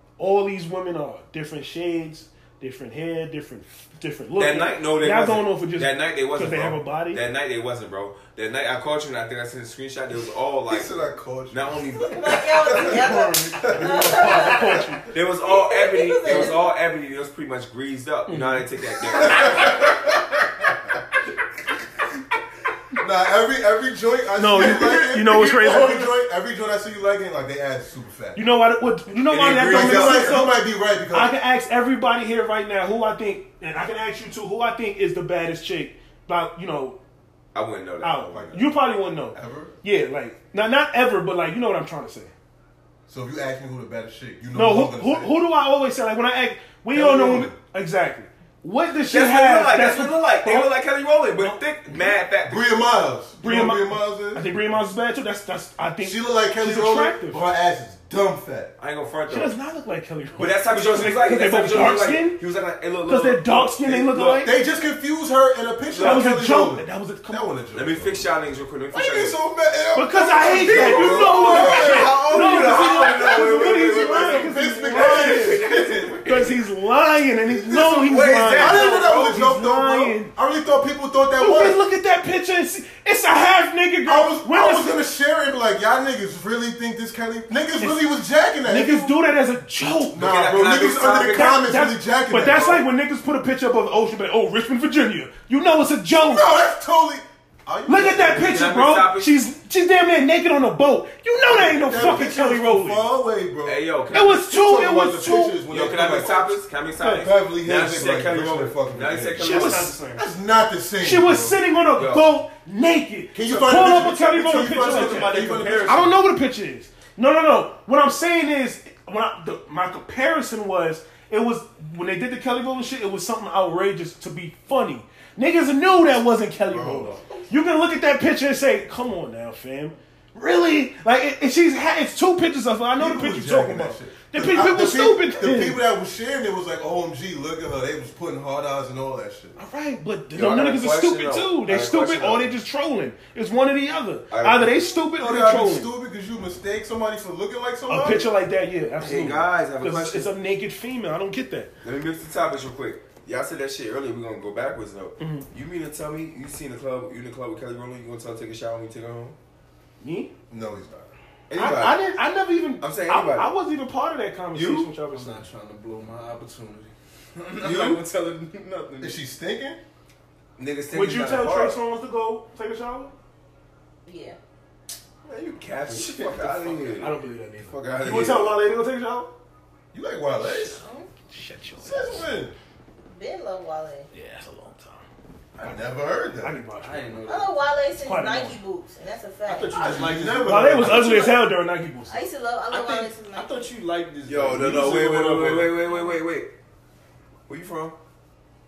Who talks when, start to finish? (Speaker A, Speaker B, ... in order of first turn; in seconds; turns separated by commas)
Speaker A: 0.2-7.2, Speaker B: 4.4-11.0, Speaker C: 10.7-13.1, Speaker B: 11.5-12.7, Speaker D: 12.0-14.8, Speaker A: 12.8-15.1, Speaker C: 13.6-14.5, Speaker B: 15.1-20.1, Speaker D: 15.4-16.6, Speaker A: 18.3-18.7, Speaker C: 19.1-20.1, Speaker C: 23.0-28.4, Speaker A: 24.4-26.1, Speaker A: 28.3-37.0, Speaker B: 29.3-30.4, Speaker C: 29.6-31.3, Speaker B: 37.5-38.7, Speaker A: 38.0-42.3, Speaker C: 38.3-38.8, Speaker C: 39.3-39.8, Speaker C: 43.1-45.3, Speaker A: 44.5-50.7, Speaker C: 46.9-47.5, Speaker B: 49.1-52.8, Speaker A: 51.4-52.1, Speaker C: 52.4-54.5, Speaker A: 53.4-57.4, Speaker C: 56.0-58.7, Speaker B: 58.8-59.5, Speaker A: 59.3-62.4, Speaker B: 60.4-64.5, Speaker A: 63.0-64.5, Speaker C: 64.4-68.3, Speaker B: 65.9-66.3, Speaker A: 66.0-67.5, Speaker B: 67.7-69.4, Speaker C: 68.9-76.2, Speaker A: 69.9-75.7, Speaker B: 70.5-76.6, Speaker A: 76.2-80.3, Speaker C: 77.5-81.8, Speaker B: 78.0-79.5, Speaker A: 81.4-85.0, Speaker C: 84.0-89.1, Speaker A: 87.8-88.1, Speaker A: 88.6-90.4, Speaker C: 90.1-92.8, Speaker B: 90.1-91.6, Speaker A: 91.0-96.5, Speaker C: 96.2-98.6, Speaker A: 97.9-103.1, Speaker B: 98.3-99.3, Speaker C: 101.4-103.8, Speaker B: 103.6-104.4, Speaker A: 104.1-105.6, Speaker C: 104.4-106.6, Speaker B: 105.7-110.0, Speaker A: 107.0-107.3, Speaker C: 107.2-111.6, Speaker A: 109.4-110.2, Speaker A: 111.0-135.8, Speaker B: 111.9-112.3, Speaker C: 113.3-116.1, Speaker E: 114.5-116.2, Speaker C: 126.7-127.5, Speaker C: 132.9-139.6, Speaker A: 139.6-145.9, Speaker B: 140.3-142.5, Speaker B: 144.3-144.8, Speaker C: 145.2-148.3, Speaker A: 147.9-151.7, Speaker B: 149.0-150.3, Speaker B: 151.8-159.4, Speaker A: 155.2-155.5, Speaker A: 160.0-160.3, Speaker C: 160.5-161.1, Speaker B: 161.5-162.1, Speaker A: 161.6-165.4, Speaker B: 162.8-163.5, Speaker B: 164.5-164.9, Speaker E: 165.1-169.2, Speaker B: 167.6-168.0, Speaker C: 169.0-169.8, Speaker B: 170.6-171.8, Speaker A: 170.9-173.1, Speaker D: 174.1-174.4, Speaker B: 175.2-178.6, Speaker E: 175.9-177.0, Speaker A: 176.9-179.3, Speaker C: 179.9-180.8, Speaker D: 180.6-181.1, Speaker A: 181.3-182.4, Speaker C: 181.8-182.6, Speaker D: 183.1-184.1, Speaker A: 184.1-185.1, Speaker C: 185.6-186.6, Speaker A: 186.3-187.2, Speaker E: 186.8-187.6, Speaker D: 187.2-190.0, Speaker A: 188.0-188.6, Speaker E: 189.4-191.4, Speaker C: 189.7-191.2, Speaker A: 190.4-192.3, Speaker D: 192.1-193.6, Speaker E: 192.7-195.9, Speaker B: 194.2-196.5, Speaker B: 197.5-198.0